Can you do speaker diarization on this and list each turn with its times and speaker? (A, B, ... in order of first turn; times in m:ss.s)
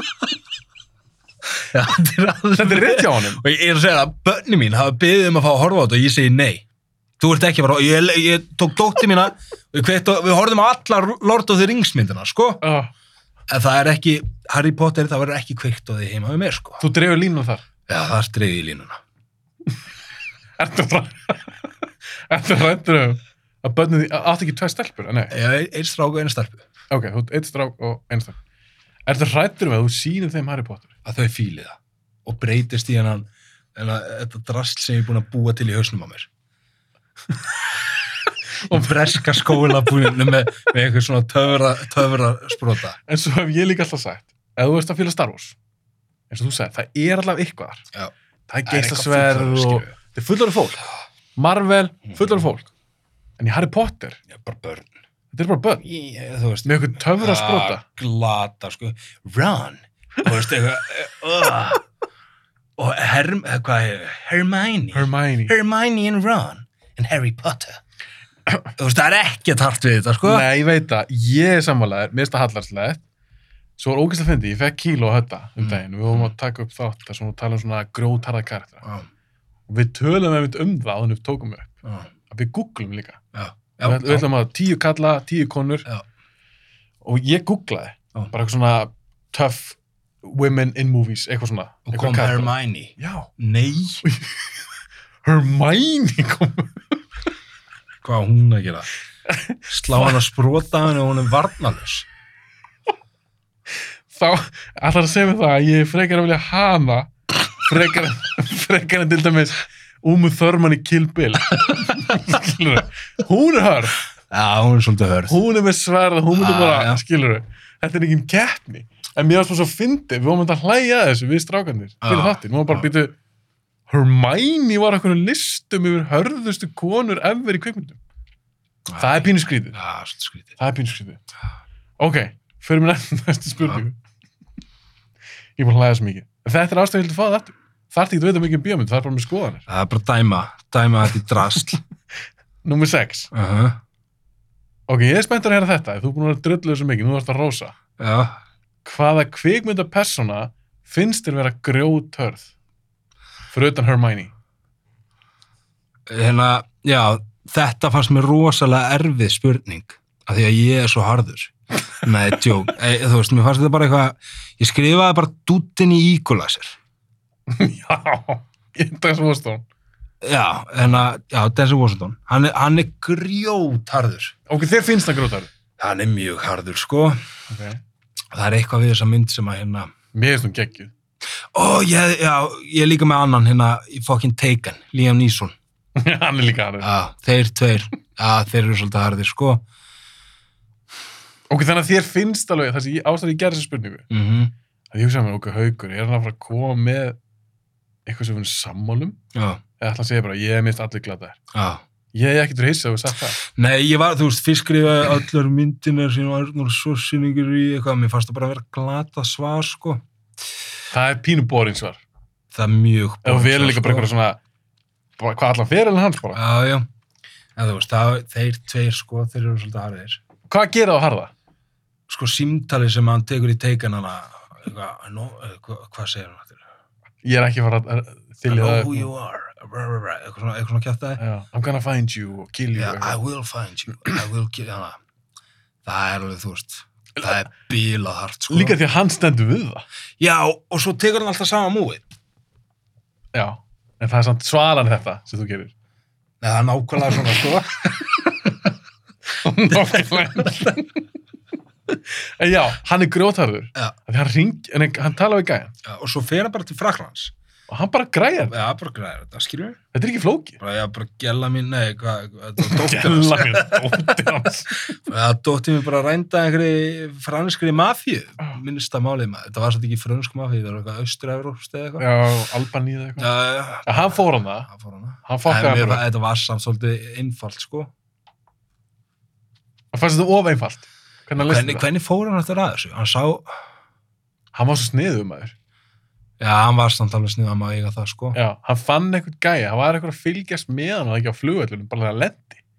0:01.6-0:06.6 A
0:02.6-0:03.4 B
0:07.2-0:12.6 A
0:12.6-0:12.9 B
0:13.5-0:16.8 A
0:16.8-0:17.6 B
0:17.9-0:19.0 A
0:20.6-0:21.6 B
0:22.3-0:25.4 B
0:25.3-0:26.7 A
0:26.9-0:28.4 B
0:29.1-0:30.9 B
0:31.0-0:36.3 A
0:38.6-0:43.0 A
0:43.1-0:45.6 B
0:46.3-0:47.8 B
0:48.5-0:50.8 B
0:48.7-0:49.9 A
0:51.4-0:52.7 B
0:53.4-0:54.2 B
0:54.3-0:54.9 A
0:55.3-0:55.8 B
0:55.8-1:01.8 A
0:56.6-0:57.8 B
1:02.8-1:07.8 A
1:04.9-1:05.5 B
1:08.8-1:10.5 A
1:10.2-1:13.0 B
1:13.8-1:18.8 B
1:15.6-1:16.3 A
1:19.7-1:21.7 B
1:22.3-1:23.2 B
1:23.3-1:24.3 A
1:23.8-1:25.9 B
1:27.0-1:33.3 B
1:31.9-1:34.0 A
1:34.0-1:34.5 B
1:35.2-1:37.0 B
1:38.0-1:38.9 A
1:39.3-1:40.2 B
1:39.7-1:42.1 A
1:44.1-1:54.0 B
1:54.3-1:55.4 A
1:55.3-2:03.2 B
1:56.3-1:57.0 A
2:02.0-2:02.9 A
2:03.9-2:08.0 B
2:08.9-2:10.6 A
2:09.0-2:09.8 B
2:10.6-2:11.2 B
2:12.0-2:14.0 B
2:15.6-2:19.7 B
2:19.7-2:21.8 A
2:22.6-2:23.3 B
2:23.3-2:23.8 A
2:24.9-2:27.8 B
2:28.0-2:28.4 A
2:28.8-2:32.5 B
2:33.5-2:34.3 B
2:36.1-2:46.8 A
2:47.5-2:49.6 B
2:50.2-2:54.3 A
2:54.5-2:55.5 B
2:55.8-2:57.2 A
2:57.5-2:57.8 B
2:58.3-2:59.9 A
3:00.1-3:00.9 B
3:01.5-3:05.6 A
3:06.0-3:06.9 B
3:06.8-3:09.6 A
3:11.5-3:14.1 B
3:14.1-3:14.5 A
3:14.9-3:17.2 B
3:18.1-3:19.2 B
3:19.3-3:19.6 A
3:19.8-3:21.4 B
3:21.5-3:21.8 A
3:22.1-3:23.4 B
3:23.4-3:30.0 A
3:30.9-3:32.0 B
3:32.5-3:34.1 A
3:33.2-3:34.4 B
3:35.2-3:36.4 B
3:36.3-3:36.9 A
3:37.6-3:40.2 A
3:40.5-3:41.3 B
3:42.1-3:46.6 A
3:47.2-3:49.1 B
3:48.5-3:51.2 A
3:51.2-3:53.2 B
3:52.8-3:55.0 A
3:55.8-3:58.8 A
3:58.5-3:59.8 B
4:00.2-4:02.0 A
4:03.3-4:05.7 B
4:06.4-4:08.6 A
4:09.3-4:11.0 B
4:09.7-4:10.7 A
4:11.9-4:15.7 B
4:15.8-4:17.3 A
4:17.7-4:18.6 B
4:18.5-4:19.8 A
4:19.9-4:20.6 B
4:20.6-4:24.3 A
4:22.6-4:25.0 B
4:25.1-4:32.1 A
4:32.0-4:33.3 B
4:33.2-4:37.9 A
4:33.8-4:34.7 B
4:35.2-4:36.0 B
4:39.9-4:41.9 B
4:41.4-4:43.6 A
4:44.5-4:45.6 B
4:46.4-4:48.4 A
4:48.3-4:52.6 B